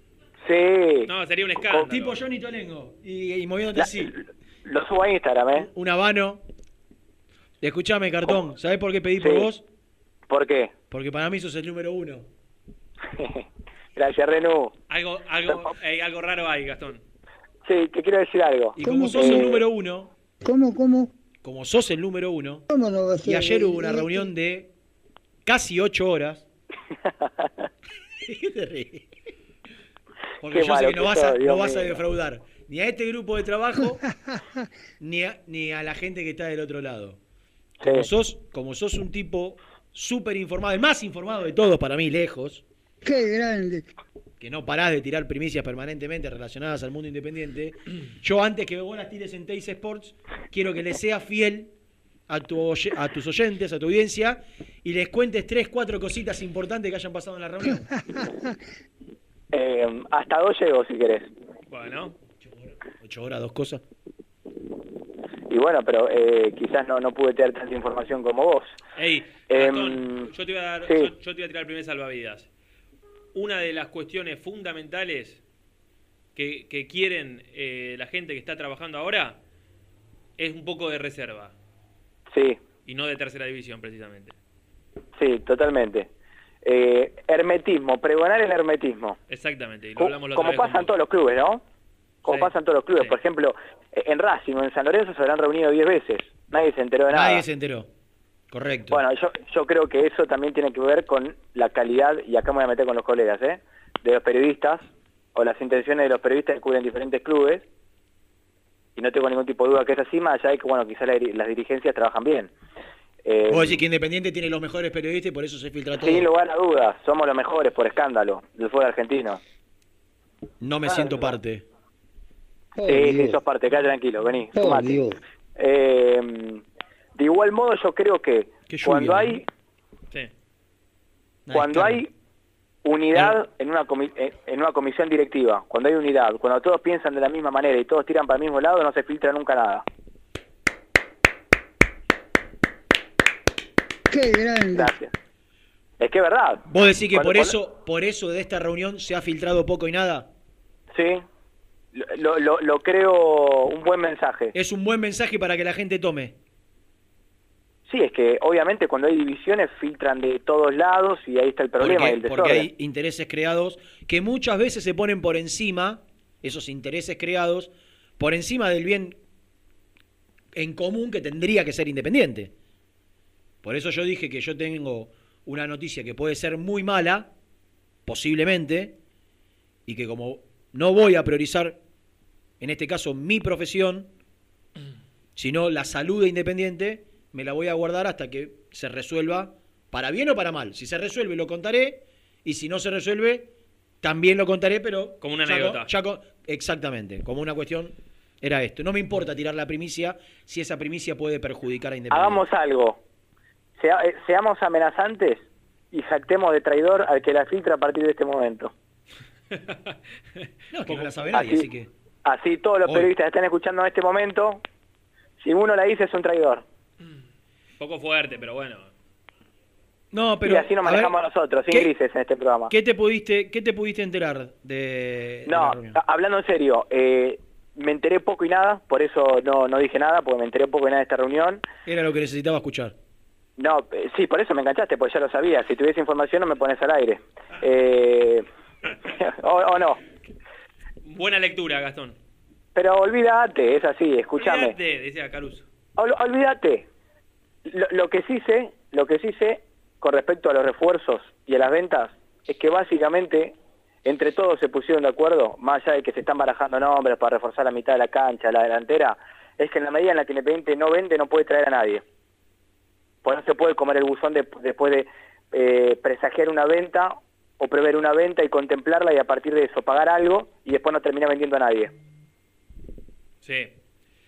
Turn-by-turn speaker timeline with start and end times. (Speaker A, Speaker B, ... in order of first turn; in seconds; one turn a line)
Speaker A: 0.5-1.1
Speaker B: 1.1-2.2
Speaker C: 1.8-4.1
Speaker A: 3.8-5.7
Speaker C: 5.5-6.4
Speaker C: 7.6-9.6
Speaker A: 9.2-9.5
Speaker A: 10.3-10.7
Speaker C: 10.9-12.3
Speaker A: 13.1-14.7
Speaker B: 14.9-17.0
Speaker A: 15.5-15.7
Speaker A: 17.6-19.5
Speaker C: 18.8-20.1
Speaker D: 18.8-19.6
Speaker D: 20.4-21.1
Speaker C: 21.4-22.6
Speaker D: 22.7-24.3
Speaker C: 23.2-24.7
Speaker C: 25.5-26.5
Speaker A: 27.2-27.5
Speaker C: 28.2-29.1
Speaker C: 30.4-34.0
Speaker A: 30.5-32.0
Speaker C: 35.0-37.2
Speaker C: 37.8-42.6
Speaker A: 37.8-38.1
Speaker D: 43.0-43.9
Speaker C: 44.4-51.7
Speaker C: 52.3-57.9
Speaker A: 59.5-61.3
Speaker B: 61.7-62.2
Speaker C: 63.0-63.8
Speaker A: 65.5-68.7
Speaker B: 69.0-72.5
Speaker A: 69.5-70.3
Speaker B: 73.3-75.4
Speaker B: 76.4-79.4
Speaker B: 80.4-81.5
Speaker A: 82.3-82.6
Speaker B: 82.8-84.3
Speaker A: 85.2-86.1
Speaker A: 86.7-89.2
Speaker B: 89.3-90.9
Speaker A: 90.0-91.6
Speaker A: 92.2-97.4
Speaker B: 92.3-93.2
Speaker C: 97.1-97.9
Speaker C: 98.5-99.0
Speaker A: 98.9-107.6
Speaker A: 109.0-112.5
Speaker A: 113.2-113.8
Speaker C: 113.5-116.3
Speaker A: 116.0-119.4
Speaker C: 120.6-121.7
Speaker D: 122.8-123.4
Speaker A: 122.9-125.0
Speaker D: 124.5-125.2
Speaker A: 125.6-126.6
Speaker A: 127.2-129.4
Speaker C: 128.7-129.4
Speaker C: 131.5-132.0
Speaker A: 131.5-132.1
Speaker A: 132.8-139.8
Speaker D: 144.1-145.0
Speaker A: 144.8-145.1
Speaker A: 146.0-147.5
Speaker C: 146.7-150.3
Speaker A: 150.9-151.2
Speaker A: 151.9-154.5
Speaker C: 154.5-156.4
Speaker A: 157.9-162.7
Speaker C: 161.8-169.2
Speaker C: 170.6-172.5
Speaker C: 173.6-177.3
Speaker C: 178.1-179.0
Speaker C: 179.9-181.8
Speaker C: 182.6-184.1
Speaker C: 185.4-193.5
Speaker C: 194.0-202.4
Speaker B: 195.2-195.9
Speaker A: 202.1-203.0
Speaker A: 203.8-208.7
Speaker B: 209.5-211.2
Speaker C: 210.7-211.9
Speaker A: 211.3-211.7
Speaker A: 212.2-214.6
Speaker C: 212.8-213.1
Speaker A: 215.4-216.6
Speaker B: 217.8-218.9
Speaker C: 220.1-221.2
Speaker A: 220.4-222.7
Speaker C: 222.7-226.0
Speaker A: 225.5-231.6
Speaker C: 231.8-232.9
Speaker A: 233.6-238.4
Speaker A: 239.1-240.0
Speaker B: 241.0-242.2
Speaker A: 242.8-244.8
Speaker B: 244.4-245.7
Speaker A: 246.0-246.9
Speaker A: 247.7-262.0
Speaker A: 263.2-271.9
Speaker B: 273.4-273.7